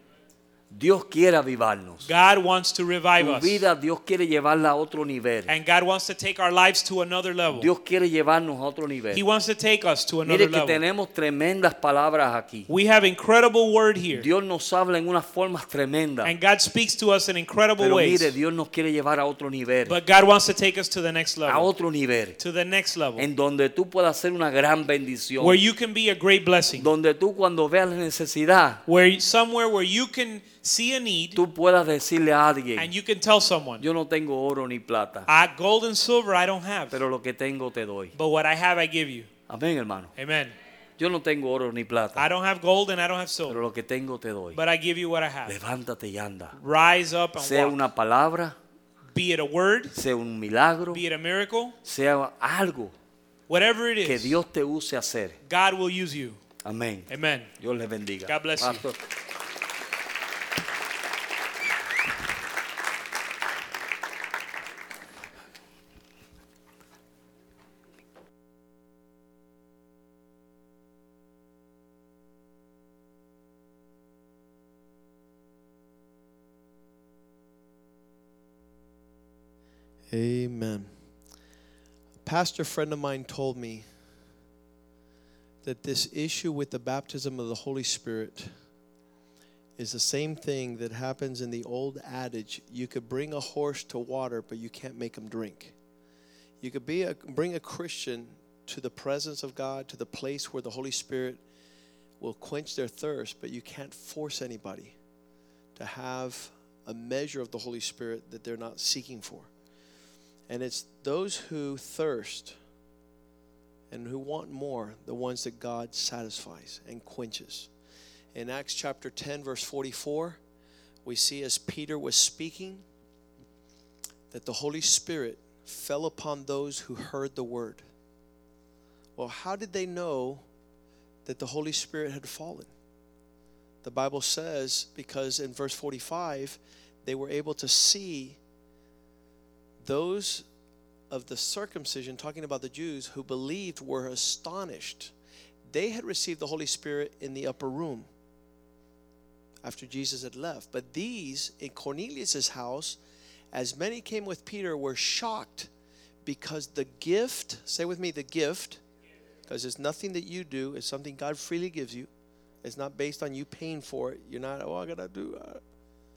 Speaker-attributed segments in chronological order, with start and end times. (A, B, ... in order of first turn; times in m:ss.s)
0:00.7-0:02.1 A
0:02.0-0:03.6 B
0:03.2-0:05.5 A
0:05.5-0:07.7 B
0:07.6-0:09.2 A
0:09.1-0:10.8 B
0:10.2-0:12.7 A
0:12.7-0:14.3 B
0:14.1-0:16.3 A
0:16.2-0:18.4 B
0:17.8-0:20.0 A
0:19.9-0:21.7 B
0:21.5-0:22.4 A
0:22.4-0:23.2 B
0:23.2-0:25.6 A
0:25.4-0:26.9 B
0:26.8-0:28.8 A
0:28.9-0:31.4 B
0:31.4-0:32.9 A
0:32.8-0:33.8 B
0:33.8-0:35.3 A
0:35.3-0:37.0 B
0:36.9-0:38.1 A
0:38.2-0:39.3 B
0:39.5-0:40.1 A
0:40.2-0:40.5 B
0:41.0-0:42.2 A
0:42.2-0:43.6 B
0:43.5-0:44.6 A
0:44.5-0:45.6 B
0:45.5-0:46.6 A
0:46.6-0:47.8 B
0:47.4-0:48.6 A
0:49.1-0:50.0 B
0:49.9-0:51.0 A
0:50.9-0:51.8 B
0:51.8-0:52.9 A
0:53.5-0:54.4 B
0:54.0-0:55.4 A
0:55.5-0:56.4 B
0:56.6-0:59.0 A
0:57.1-0:57.5 B
0:58.3-0:58.8 B
1:20.1-1:20.9 C
1:22.2-1:23.8 C
1:25.6-1:28.5 C
1:29.8-1:35.7 C
1:36.6-1:41.4 C
1:42.2-1:44.9 C
1:45.8-1:49.5 C
1:50.5-1:52.6 C
1:53.9-1:57.7 C
1:58.3-2:00.4 C
2:01.0-2:02.8 C
2:04.3-2:07.8 C
2:09.2-2:10.4 C
2:11.2-2:12.7 C
2:13.8-2:18.4 C
2:19.8-2:20.4 C
2:21.1-2:25.1 C
2:25.7-2:28.1 C
2:29.6-2:33.0 C
2:33.5-2:35.7 C
2:36.2-2:38.8 C
2:39.5-2:42.1 C
2:42.6-2:45.6 C